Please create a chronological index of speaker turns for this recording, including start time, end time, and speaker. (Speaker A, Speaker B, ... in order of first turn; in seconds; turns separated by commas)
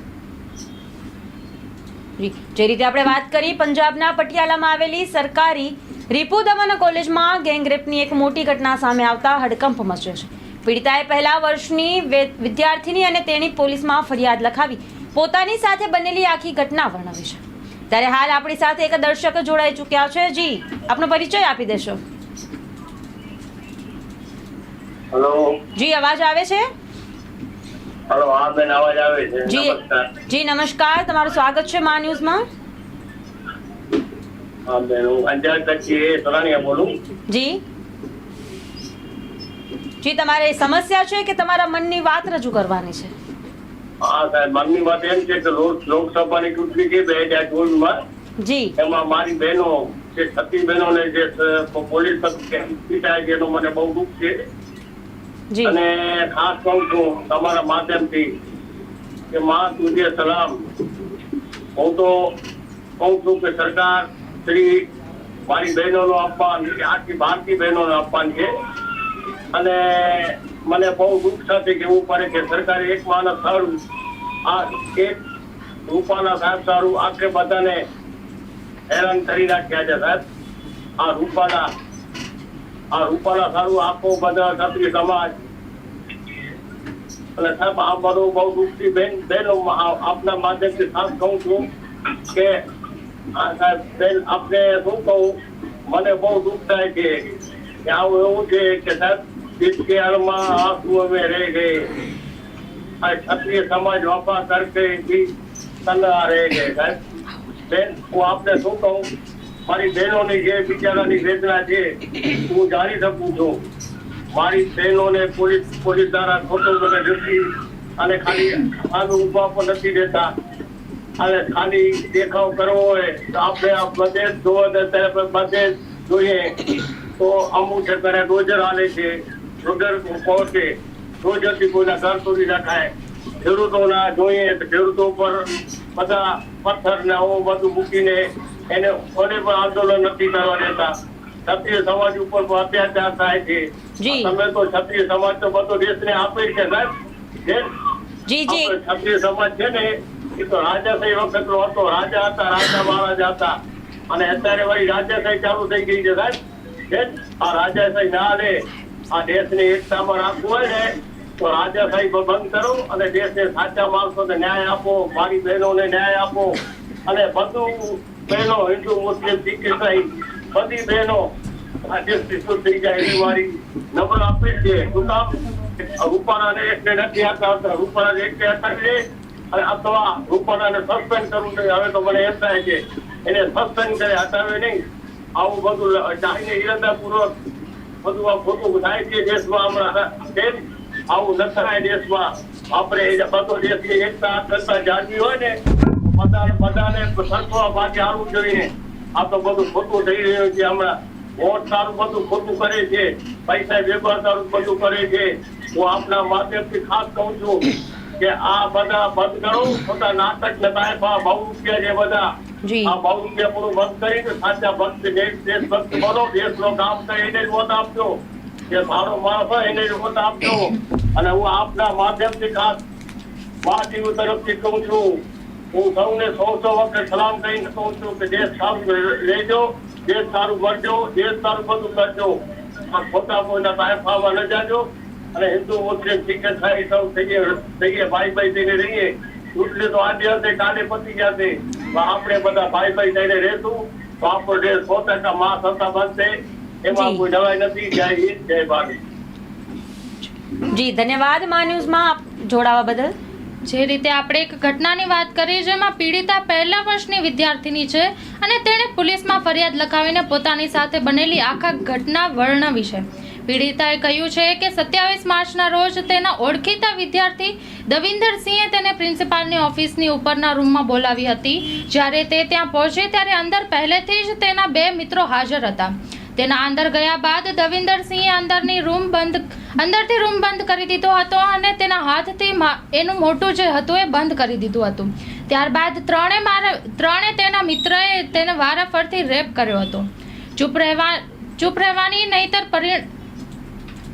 Speaker A: 2.2-22.0, Speaker B: 25.1-25.6, Speaker A: 25.8-26.6, Speaker B: 28.1-30.1, Speaker A: 29.5-32.4, Speaker B: 34.7-36.9, Speaker A: 37.3-37.6, Speaker A: 40.0-43.1, Speaker B: 44.0-48.0, Speaker A: 48.4-48.7, Speaker B: 48.8-54.4, Speaker A: 55.5-55.8, Speaker B: 55.6-58.3, Speaker B: 59.3-60.6, Speaker B: 61.8-62.3, Speaker B: 63.0-64.8, Speaker B: 65.5-68.5, Speaker B: 69.5-73.8, Speaker B: 74.4-75.2, Speaker B: 75.9-77.8, Speaker B: 78.9-80.2, Speaker B: 81.0-81.7, Speaker B: 82.9-85.3, Speaker B: 87.4-91.7, Speaker B: 92.3-92.6, Speaker B: 93.3-95.3, Speaker B: 95.9-97.3, Speaker B: 97.8-101.9, Speaker B: 103.0-105.3, Speaker B: 105.8-107.0, Speaker B: 107.7-109.0, Speaker B: 109.7-113.5, Speaker B: 114.3-120.3, Speaker B: 121.2-126.6, Speaker B: 127.2-132.9, Speaker B: 133.4-135.4, Speaker B: 135.9-140.9, Speaker B: 141.4-146.9, Speaker A: 144.0-144.3, Speaker A: 148.3-148.7, Speaker B: 148.5-153.6, Speaker B: 154.1-156.4, Speaker B: 156.9-158.6, Speaker B: 159.1-171.2, Speaker B: 171.8-179.0, Speaker B: 179.5-184.8, Speaker B: 185.4-187.3, Speaker B: 188.0-212.2, Speaker A: 212.6-212.9, Speaker B: 212.8-218.1, Speaker B: 218.7-222.8, Speaker B: 223.6-225.2, Speaker B: 225.7-232.3, Speaker B: 232.9-246.3, Speaker B: 246.8-248.9, Speaker A: 246.9-247.2, Speaker A: 250.7-253.1, Speaker C: 253.6-293.1